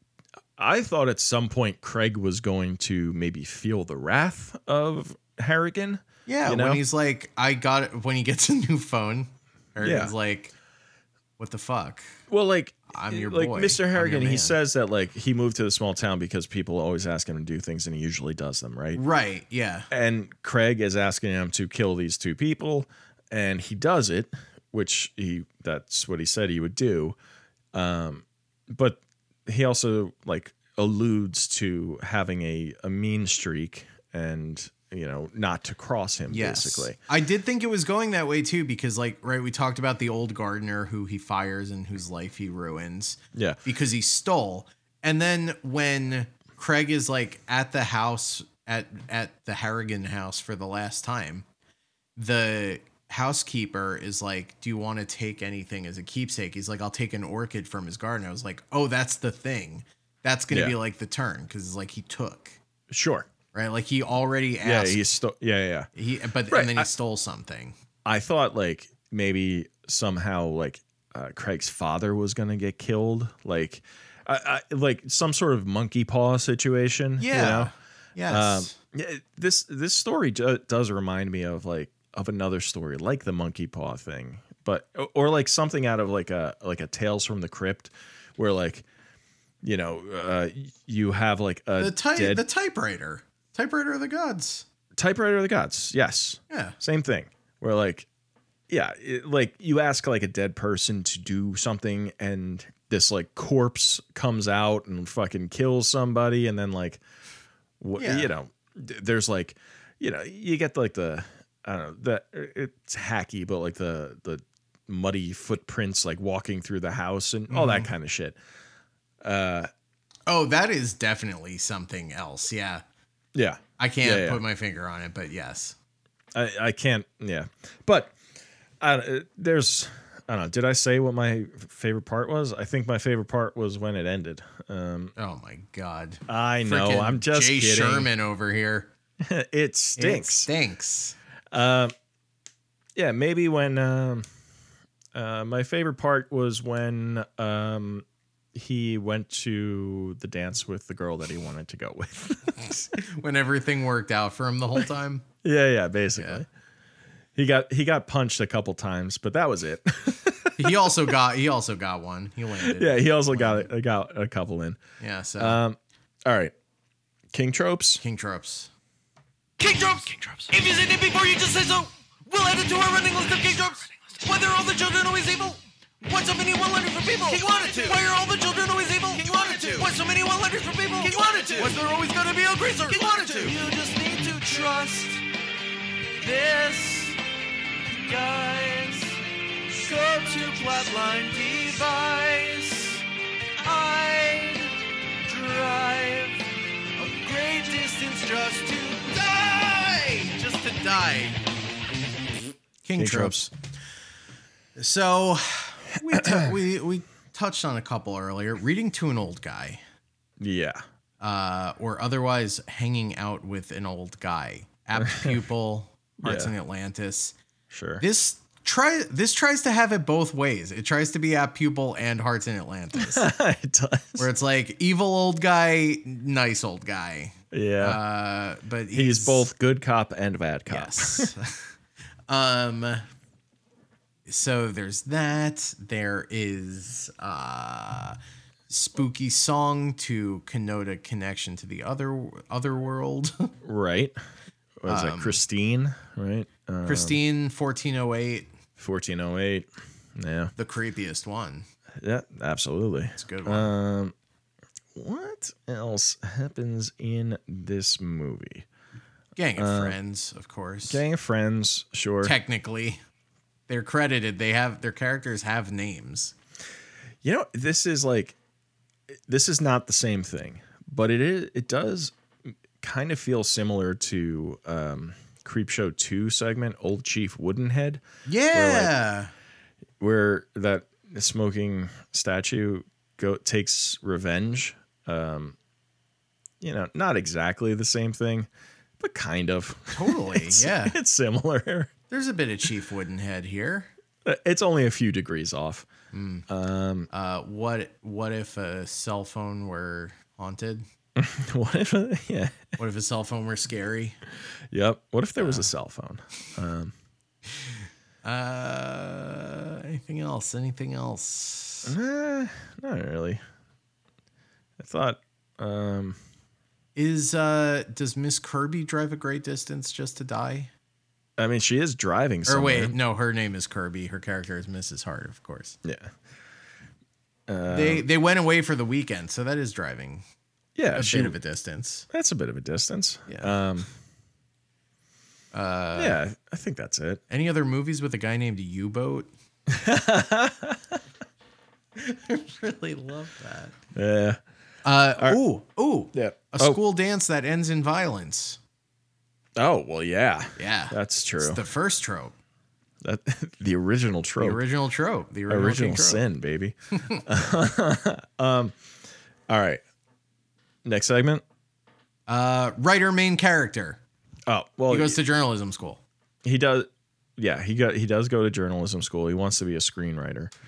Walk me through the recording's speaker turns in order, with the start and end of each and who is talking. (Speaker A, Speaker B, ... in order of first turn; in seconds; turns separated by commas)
Speaker A: 0.6-6.8, Speaker B: 6.3-10.5, Speaker A: 9.8-10.1, Speaker B: 11.4-12.1, Speaker A: 12.3-19.0, Speaker B: 12.9-14.6, Speaker B: 18.9-19.9, Speaker A: 19.9-27.1, Speaker A: 27.7-37.0, Speaker B: 36.3-51.5, Speaker B: 52.2-62.6, Speaker A: 60.5-60.8, Speaker A: 62.9-63.3, Speaker B: 63.5-65.0, Speaker A: 64.6-65.9, Speaker B: 66.0-67.8, Speaker A: 66.5-66.9, Speaker A: 68.0-77.7, Speaker B: 77.2-78.8, Speaker A: 78.3-88.8, Speaker A: 89.6-92.4, Speaker B: 91.8-94.7, Speaker A: 95.0-98.1, Speaker B: 96.5-96.8, Speaker A: 98.7-107.0, Speaker A: 107.8-118.4, Speaker B: 108.0-108.3, Speaker B: 117.5-117.9, Speaker A: 119.2-119.7, Speaker B: 120.3-122.8, Speaker A: 123.3-124.4, Speaker B: 123.8-125.8, Speaker A: 126.3-128.2, Speaker A: 128.8-135.1, Speaker B: 135.2-138.9, Speaker A: 136.3-138.1, Speaker A: 139.2-140.5, Speaker B: 140.0-141.2, Speaker A: 141.5-141.9, Speaker A: 143.0-144.3, Speaker A: 145.1-152.9, Speaker B: 152.9-155.3, Speaker A: 155.4-156.5, Speaker B: 156.2-156.4, Speaker A: 157.3-160.9, Speaker B: 160.6-163.7, Speaker A: 162.6-164.8, Speaker B: 165.0-165.6, Speaker A: 165.4-166.5, Speaker A: 167.3-168.0, Speaker B: 168.0-168.7, Speaker C: 169.6-185.2, Speaker B: 170.1-170.5, Speaker B: 177.4-178.0, Speaker B: 179.3-179.8, Speaker B: 181.1-183.6, Speaker C: 186.2-187.1, Speaker C: 188.1-189.2, Speaker C: 189.7-191.8, Speaker B: 190.3-193.0, Speaker C: 193.7-194.6, Speaker B: 193.7-193.9, Speaker C: 195.3-196.3, Speaker C: 197.0-199.1, Speaker B: 199.0-201.4, Speaker B: 202.8-203.5, Speaker A: 203.0-203.4, Speaker B: 204.8-209.8, Speaker A: 206.2-206.5, Speaker A: 210.4-210.8, Speaker B: 211.2-217.3, Speaker A: 215.0-215.4, Speaker A: 216.2-216.5, Speaker A: 217.7-218.0, Speaker B: 218.0-223.3, Speaker A: 222.9-224.3, Speaker B: 224.2-229.5, Speaker A: 227.5-228.0, Speaker A: 228.9-231.3, Speaker B: 230.7-231.7, Speaker B: 232.3-233.1, Speaker B: 234.3-238.2, Speaker B: 238.7-243.5, Speaker A: 243.6-244.2, Speaker A: 244.8-247.2, Speaker B: 244.9-245.4, Speaker B: 246.9-248.5, Speaker A: 248.8-250.5, Speaker B: 250.6-251.7, Speaker A: 252.0-254.1, Speaker B: 253.2-253.7, Speaker A: 254.9-258.7, Speaker B: 259.4-261.0, Speaker A: 259.6-260.0, Speaker A: 260.9-262.4, Speaker B: 262.2-263.0, Speaker B: 263.7-266.3, Speaker A: 267.2-268.4, Speaker A: 269.3-278.0, Speaker B: 278.3-279.3, Speaker A: 278.5-278.9, Speaker A: 280.0-285.6, Speaker A: 286.6-288.5, Speaker A: 289.0-291.9, Speaker B: 289.9-291.0, Speaker B: 292.1-293.9, Speaker A: 294.2-295.9, Speaker B: 296.1-296.5, Speaker A: 296.5-297.1, Speaker B: 297.1-300.9, Speaker A: 301.2-302.7, Speaker B: 302.8-304.2, Speaker A: 304.7-306.9, Speaker B: 305.4-305.7, Speaker B: 308.2-311.9, Speaker A: 311.9-313.4, Speaker A: 314.8-316.2, Speaker B: 316.9-320.7, Speaker A: 321.4-323.0, Speaker B: 322.5-325.8, Speaker A: 325.8-326.1, Speaker A: 327.5-328.1, Speaker B: 327.7-330.2, Speaker A: 330.8-331.4, Speaker B: 330.9-332.1, Speaker A: 332.1-333.9, Speaker B: 333.3-333.6, Speaker B: 335.5-336.2, Speaker A: 336.0-337.2, Speaker B: 337.3-339.3, Speaker A: 339.7-341.0, Speaker B: 341.9-343.8, Speaker A: 343.9-344.4, Speaker B: 344.8-348.6, Speaker A: 346.1-346.8, Speaker A: 349.6-351.6, Speaker B: 350.6-352.4, Speaker A: 353.0-354.6, Speaker B: 354.4-356.2, Speaker A: 355.5-358.7, Speaker A: 359.5-359.8, Speaker A: 360.9-361.4, Speaker B: 362.3-364.0, Speaker A: 364.5-365.2, Speaker B: 364.9-366.0, Speaker A: 366.4-370.5